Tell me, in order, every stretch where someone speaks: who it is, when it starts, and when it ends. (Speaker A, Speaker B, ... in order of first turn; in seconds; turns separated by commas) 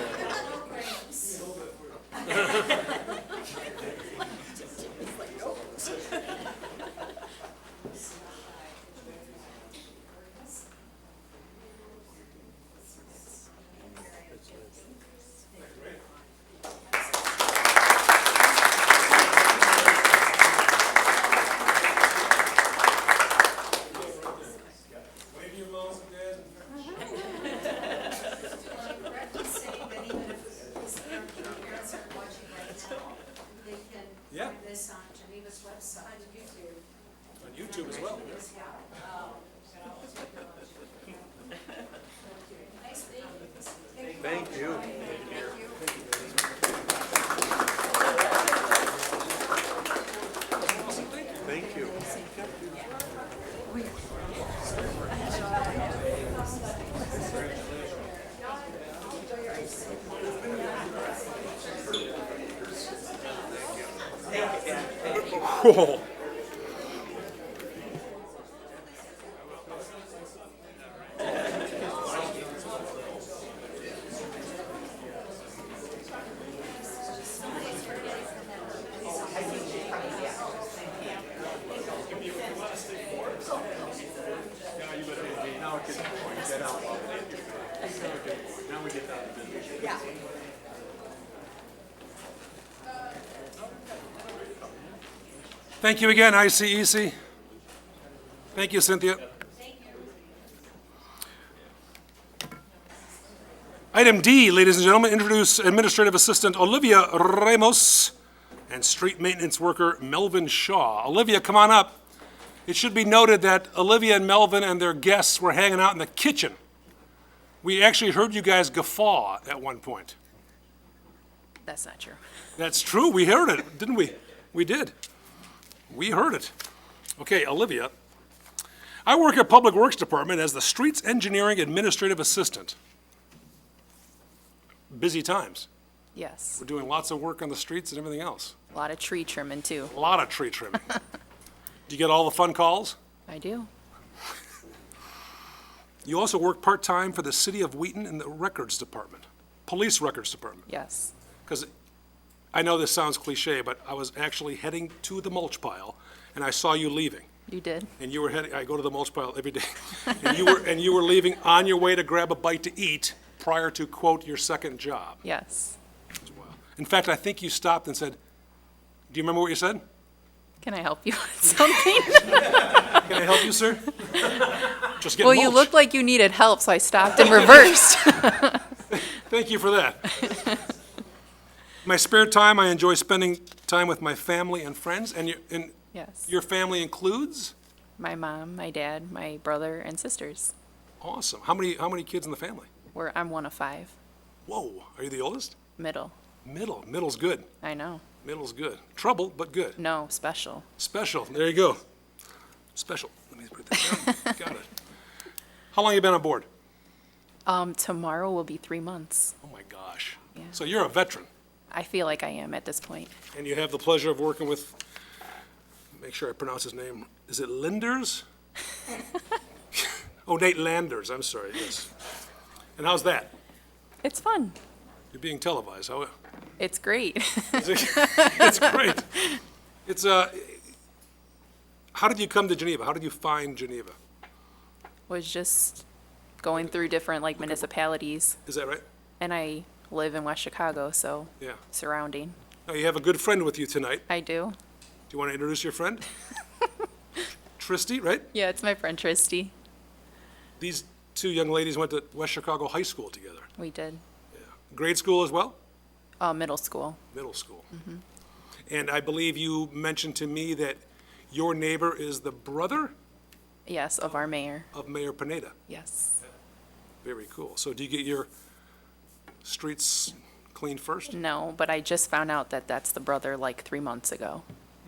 Speaker A: 15.6-16.0, Speaker A: 23.9-24.6, Speaker A: 25.2-26.7, Speaker B: 31.6-32.2, Speaker A: 34.3-34.7, Speaker A: 37.4-38.5, Speaker B: 44.4-44.8, Speaker A: 44.4-44.9, Speaker A: 50.6-51.6, Speaker A: 65.2-66.1, Speaker B: 85.9-87.2, Speaker A: 95.8-97.2, Speaker A: 98.5-99.2, Speaker A: 103.9-108.1, Speaker A: 108.7-112.0, Speaker A: 112.7-116.6, Speaker A: 117.6-120.2, Speaker C: 121.6-122.2, Speaker A: 122.6-124.9, Speaker A: 125.9-126.5, Speaker A: 127.2-127.9, Speaker A: 129.1-132.8, Speaker A: 134.9-135.7, Speaker C: 136.2-136.6, Speaker A: 136.6-138.6, Speaker C: 138.7-139.9, Speaker A: 139.9-140.8, Speaker A: 141.9-143.0, Speaker C: 143.3-143.7, Speaker A: 146.1-150.7, Speaker C: 150.7-151.1, Speaker A: 152.5-157.3, Speaker C: 157.5-157.9, Speaker A: 158.0-165.2, Speaker C: 165.2-165.8, Speaker A: 166.2-168.2, Speaker A: 169.1-169.8, Speaker C: 170.6-172.9, Speaker A: 172.8-175.7, Speaker C: 174.1-174.6, Speaker C: 175.2-178.7, Speaker A: 178.9-180.4, Speaker A: 181.8-185.7, Speaker C: 185.9-186.3, Speaker A: 186.3-187.5, Speaker C: 188.0-190.5, Speaker A: 191.0-192.7, Speaker C: 192.9-193.9, Speaker A: 194.5-195.6, Speaker C: 195.8-196.1, Speaker A: 196.4-197.5, Speaker C: 197.6-198.0, Speaker A: 198.2-199.8, Speaker C: 199.8-200.7, Speaker A: 200.8-201.8, Speaker A: 202.8-204.7, Speaker A: 205.7-206.5, Speaker C: 207.5-209.3, Speaker A: 209.4-211.3, Speaker C: 211.7-213.1, Speaker A: 213.3-214.8, Speaker A: 215.9-218.2, Speaker A: 219.7-221.9, Speaker A: 222.8-223.3, Speaker C: 224.0-224.6, Speaker A: 225.1-226.1, Speaker C: 226.6-228.8, Speaker A: 227.6-229.1, Speaker A: 229.9-230.6, Speaker A: 231.9-234.0, Speaker C: 235.1-235.8, Speaker C: 236.4-238.4, Speaker A: 238.5-238.8, Speaker C: 239.2-242.4, Speaker A: 242.7-244.1, Speaker C: 244.1-244.6, Speaker A: 245.1-246.1, Speaker A: 247.6-248.3, Speaker C: 248.3-249.5, Speaker A: 250.6-253.5, Speaker C: 253.6-254.0, Speaker A: 254.3-255.6, Speaker C: 256.2-257.0, Speaker A: 257.1-257.7, Speaker C: 257.7-258.0, Speaker A: 258.7-262.9, Speaker C: 263.7-264.7, Speaker A: 264.7-265.6, Speaker C: 265.7-266.2, Speaker A: 267.0-268.3, Speaker A: 269.4-271.2, Speaker C: 271.1-274.4